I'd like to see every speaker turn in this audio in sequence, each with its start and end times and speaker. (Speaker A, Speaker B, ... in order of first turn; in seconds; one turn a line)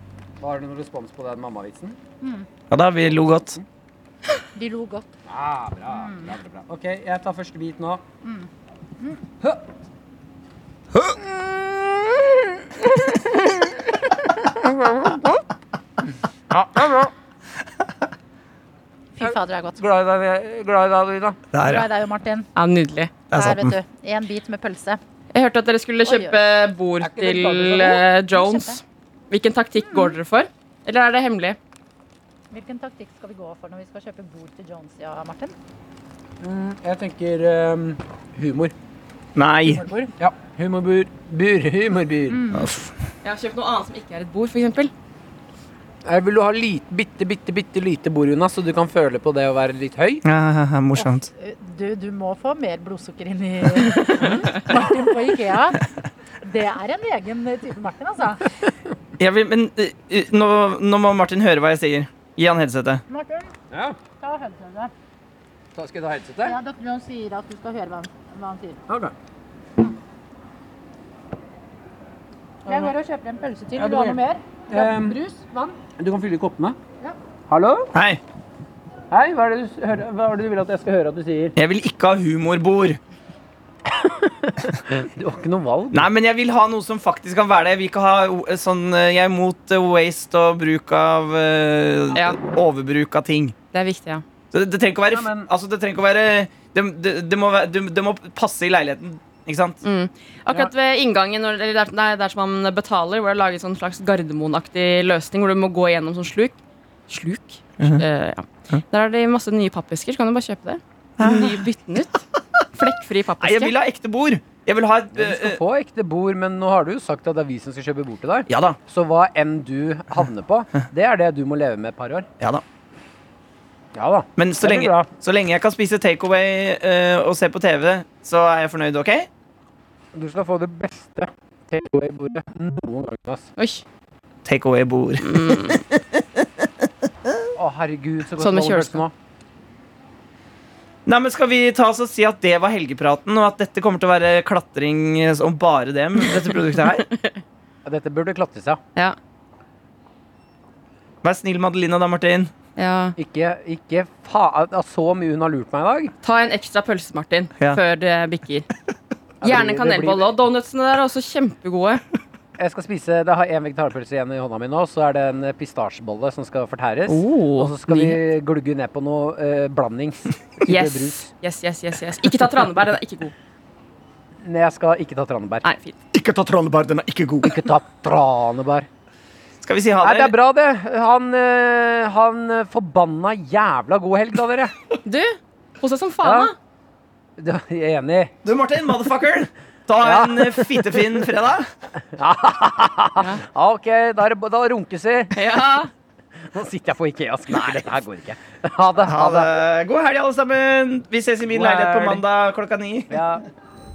Speaker A: 0.4-2.0
Speaker B: 2.2-2.5
Speaker C: 2.7-3.6
Speaker A: 3.1-3.6
Speaker B: 4.5-5.1
Speaker A: 5.3-8.0
Speaker B: 5.9-6.3
Speaker B: 8.2-8.5
Speaker A: 10.9-12.6
Speaker A: 13.1-13.6
Speaker A: 14.2-15.4
Speaker A: 16.5-17.1
Speaker B: 19.1-19.8
Speaker A: 19.2-21.4
Speaker C: 21.5-21.9
Speaker B: 21.6-22.5
Speaker D: 22.6-23.1
Speaker C: 23.3-23.7
Speaker B: 23.3-25.0
Speaker D: 25.3-31.6
Speaker B: 26.0-26.4
Speaker A: 27.0-28.1
Speaker B: 28.2-28.8
Speaker B: 29.8-30.2
Speaker B: 32.5-35.5
Speaker A: 36.4-38.7
Speaker C: 39.4-39.8
Speaker A: 39.6-42.5
Speaker B: 42.3-42.7
Speaker C: 42.5-42.9
Speaker D: 43.2-44.9
Speaker A: 46.0-50.2
Speaker C: 50.2-51.3
Speaker B: 51.0-55.8
Speaker A: 54.2-54.5
Speaker B: 56.4-58.5
Speaker C: 59.2-63.0
Speaker B: 63.1-63.5
Speaker A: 63.7-64.0
Speaker B: 64.2-64.9
Speaker A: 65.8-66.6
Speaker B: 66.4-68.8
Speaker A: 72.7-72.9
Speaker B: 72.7-75.8
Speaker A: 73.8-75.2
Speaker A: 76.0-76.8
Speaker A: 77.5-77.9
Speaker C: 77.9-78.2
Speaker A: 79.1-81.5
Speaker C: 81.5-83.0
Speaker A: 83.9-86.1
Speaker C: 85.9-93.5
Speaker D: 92.1-92.4
Speaker D: 93.7-94.2
Speaker C: 94.5-99.8
Speaker A: 95.1-95.5
Speaker D: 99.8-106.5
Speaker D: 107.1-112.2
Speaker C: 111.2-111.6
Speaker D: 112.7-113.7
Speaker C: 113.4-115.6
Speaker A: 115.1-122.3
Speaker C: 118.5-118.8
Speaker A: 123.9-125.1
Speaker C: 124.4-129.3
Speaker A: 130.1-133.5
Speaker D: 133.6-133.8
Speaker C: 134.4-135.8
Speaker D: 135.2-135.8
Speaker A: 137.5-139.1
Speaker D: 138.4-139.1
Speaker C: 141.1-147.1
Speaker A: 147.8-148.8
Speaker C: 151.2-152.5
Speaker D: 152.8-153.1
Speaker A: 153.2-156.1
Speaker D: 156.2-158.7
Speaker A: 159.4-160.3
Speaker D: 159.4-162.0
Speaker A: 162.6-171.3
Speaker D: 167.1-168.2
Speaker D: 170.6-173.3
Speaker A: 174.4-175.7
Speaker D: 175.6-176.0
Speaker C: 176.1-177.5
Speaker A: 177.4-178.9
Speaker C: 179.6-180.3
Speaker A: 180.0-184.7
Speaker D: 185.0-186.5
Speaker A: 186.2-186.5
Speaker A: 187.4-188.3
Speaker C: 188.4-191.7
Speaker A: 190.0-191.0
Speaker A: 192.0-195.4
Speaker D: 195.3-195.9
Speaker A: 196.4-199.5
Speaker C: 199.0-203.3
Speaker A: 201.5-202.2
Speaker A: 203.1-203.4